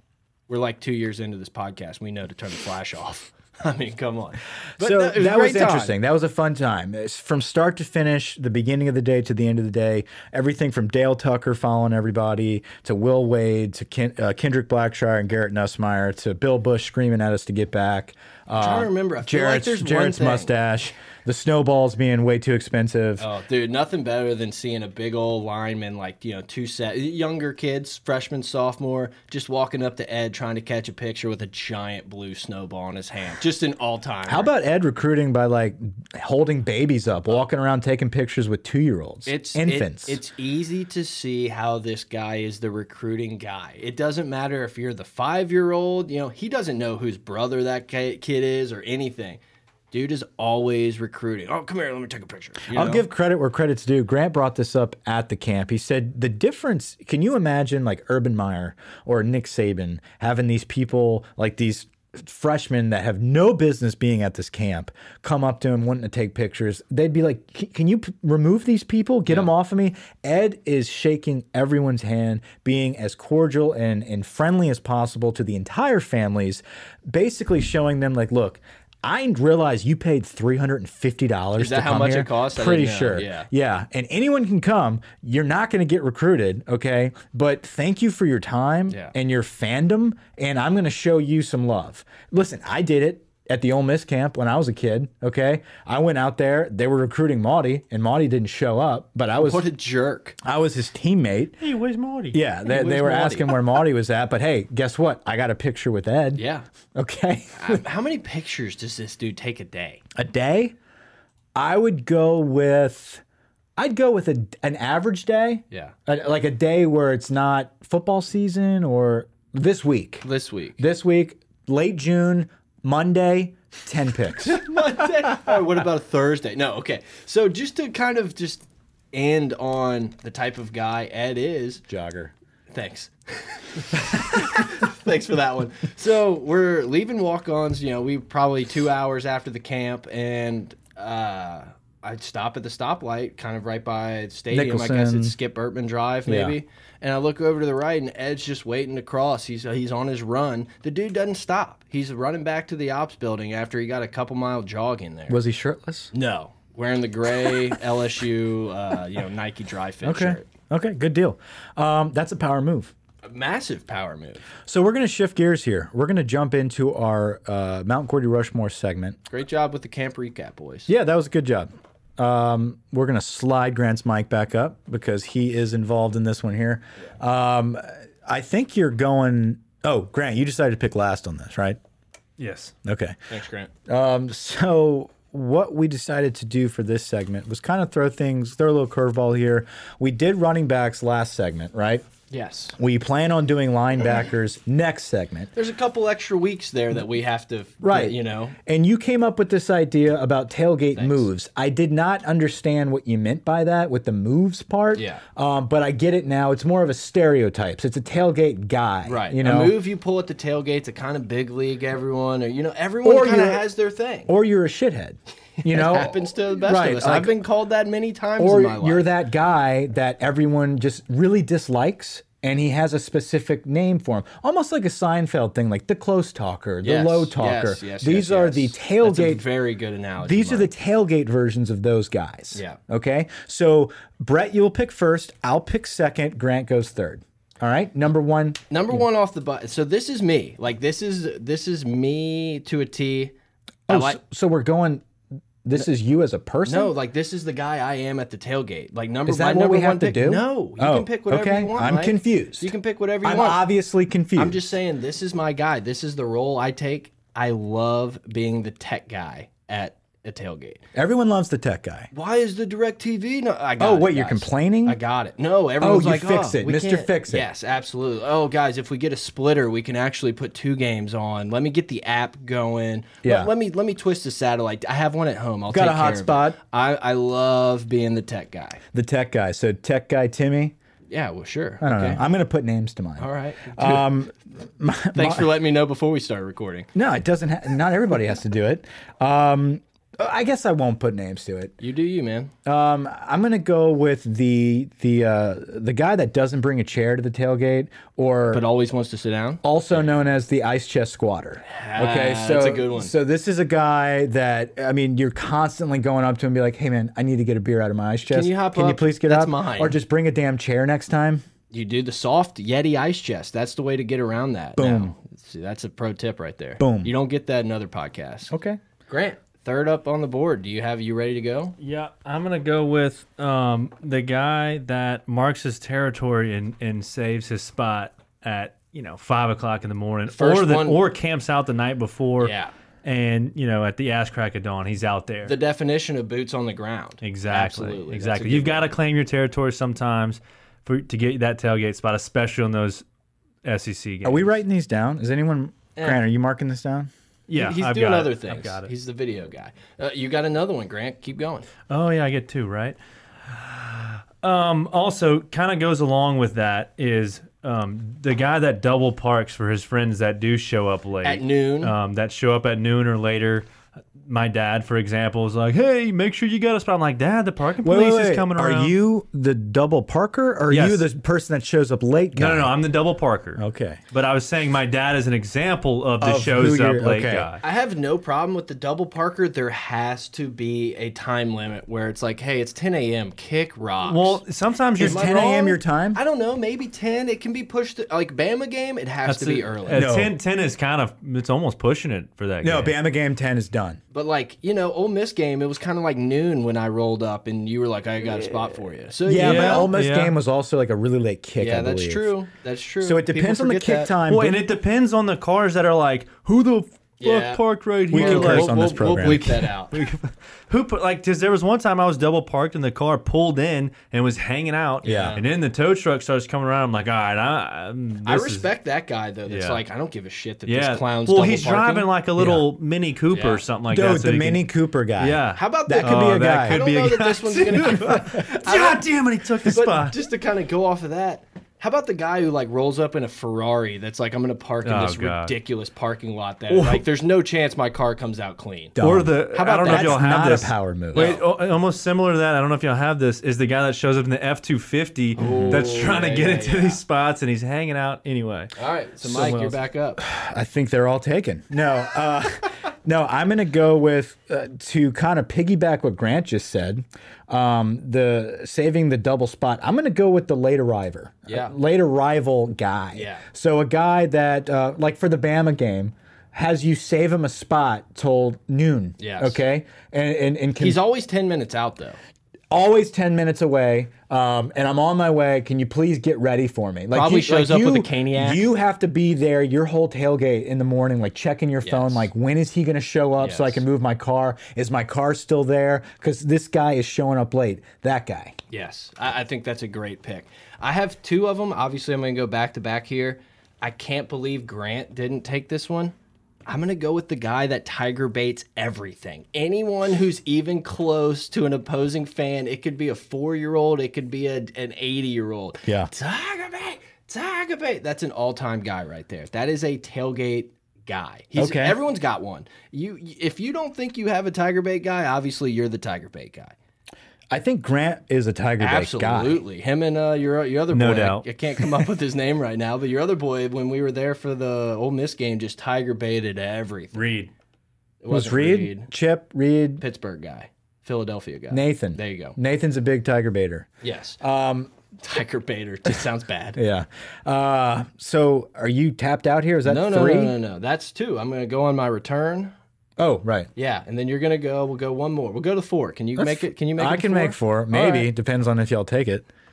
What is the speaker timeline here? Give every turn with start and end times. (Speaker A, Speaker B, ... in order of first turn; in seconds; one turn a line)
Speaker A: 0.5-5.9
Speaker B: 4.8-23.3
Speaker A: 18.6-20.5
Speaker A: 23.2-34.5
Speaker B: 34.3-40.2
Speaker A: 39.3-49.4
Speaker A: 49.9-53.1
Speaker B: 52.7-99.7
Speaker A: 81.6-83.5
Speaker A: 99.4-100.4
Speaker B: 100.4-101.6
Speaker C: 101.6-102.4
Speaker B: 102.3-106.4
Speaker A: 102.7-103.6
Speaker A: 106.4-106.7
Speaker B: 106.9-107.8
Speaker A: 107.6-110.0
Speaker B: 110.2-110.7
Speaker B: 111.6-113.2
Speaker B: 113.8-120.2
Speaker A: 120.2-120.8
Speaker B: 120.8-124.6
Speaker A: 124.4-131.8
Speaker B: 131.9-132.3
Speaker A: 132.7-155.4
Speaker B: 144.5-145.3
Speaker B: 146.3-146.6
Speaker B: 155.3-156.1
Speaker A: 156.1-160.5
Speaker B: 160.0-162.9
Speaker A: 163.2-164.4
Speaker B: 164.7-169.2
Speaker A: 169.3-170.9
Speaker B: 170.9-181.8
Speaker C: 182.4-182.7
Speaker B: 182.8-183.2
Speaker A: 183.3-183.7
Speaker B: 183.9-192.1
Speaker A: 192.3-192.8
Speaker B: 192.8-195.5
Speaker A: 195.6-198.6
Speaker B: 197.8-209.8
Speaker A: 201.0-201.3
Speaker A: 204.9-205.2
Speaker A: 209.1-214.3
Speaker B: 213.0-213.6
Speaker B: 214.3-217.3
Speaker A: 215.6-219.1
Speaker B: 218.4-229.4
Speaker A: 226.8-230.7
Speaker B: 230.2-238.6
Speaker A: 232.5-232.8
Speaker A: 238.7-243.3
Speaker B: 243.9-245.0
Speaker A: 243.9-244.2
Speaker B: 245.6-246.9
Speaker A: 246.7-253.7
Speaker B: 249.3-252.7
Speaker B: 253.2-254.6
Speaker A: 254.4-260.8
Speaker B: 260.9-262.1
Speaker A: 262.1-278.8
Speaker B: 263.8-265.0
Speaker B: 265.8-267.4
Speaker B: 273.2-273.5
Speaker B: 275.7-276.6
Speaker B: 278.9-280.8
Speaker A: 281.1-282.2
Speaker B: 281.8-285.5
Speaker A: 283.2-284.1
Speaker A: 285.1-286.9
Speaker B: 286.9-291.7
Speaker A: 291.8-292.5
Speaker B: 292.6-298.6
Speaker A: 298.5-299.6
Speaker B: 299.6-311.4
Speaker A: 301.7-303.1
Speaker A: 308.3-310.0
Speaker A: 311.7-318.5
Speaker B: 314.8-315.1
Speaker B: 316.8-317.1
Speaker B: 318.5-318.8
Speaker A: 319.1-321.8
Speaker C: 321.8-335.6
Speaker A: 330.3-331.0
Speaker A: 332.4-332.7
Speaker A: 335.5-338.9
Speaker C: 337.2-343.0
Speaker C: 343.6-344.5
Speaker B: 344.2-347.1
Speaker C: 347.5-348.9
Speaker A: 347.5-351.7
Speaker C: 351.9-363.7
Speaker A: 361.2-361.9
Speaker C: 364.2-369.0
Speaker B: 367.8-372.8
Speaker C: 370.7-371.1
Speaker C: 372.4-377.6
Speaker B: 373.6-374.0
Speaker B: 376.2-377.5
Speaker A: 377.6-384.4
Speaker C: 384.1-385.3
Speaker B: 385.0-386.2
Speaker A: 385.0-390.1
Speaker C: 389.2-392.9
Speaker B: 389.9-390.3
Speaker B: 392.6-394.0
Speaker A: 394.1-399.9
Speaker B: 399.3-402.3
Speaker C: 399.4-400.3
Speaker A: 401.6-404.1
Speaker B: 403.0-404.6
Speaker C: 404.3-418.7
Speaker A: 407.2-410.0
Speaker B: 408.1-409.5
Speaker B: 415.0-415.4
Speaker A: 415.0-415.5
Speaker A: 418.3-422.1
Speaker C: 419.5-419.8
Speaker C: 420.7-430.2
Speaker B: 422.4-422.7
Speaker A: 423.3-423.6
Speaker B: 423.9-426.8
Speaker A: 425.6-429.1
Speaker A: 429.6-439.0
Speaker C: 434.8-435.6
Speaker C: 436.7-437.0
Speaker B: 438.9-441.4
Speaker C: 439.0-449.8
Speaker A: 439.5-440.3
Speaker A: 441.1-441.4
Speaker A: 445.4-447.0
Speaker B: 445.4-445.9
Speaker A: 448.8-450.2
Speaker B: 450.2-471.0
Speaker A: 463.1-463.4
Speaker A: 469.2-469.6
Speaker A: 470.8-472.2
Speaker B: 472.7-488.6
Speaker A: 477.1-478.7
Speaker A: 481.8-482.3
Speaker A: 483.4-483.8
Speaker A: 488.7-496.1
Speaker A: 496.7-516.8
Speaker B: 511.6-512.0
Speaker B: 517.5-519.6
Speaker A: 518.8-527.3
Speaker C: 520.9-521.5
Speaker C: 527.1-527.5
Speaker A: 528.2-529.1
Speaker B: 528.3-530.0
Speaker A: 530.0-532.6
Speaker B: 531.7-533.9
Speaker A: 534.0-534.4
Speaker B: 534.4-534.9
Speaker A: 535.2-536.8
Speaker B: 536.8-540.5
Speaker A: 539.9-542.7
Speaker B: 543.2-543.7
Speaker A: 543.8-548.3
Speaker B: 546.4-549.5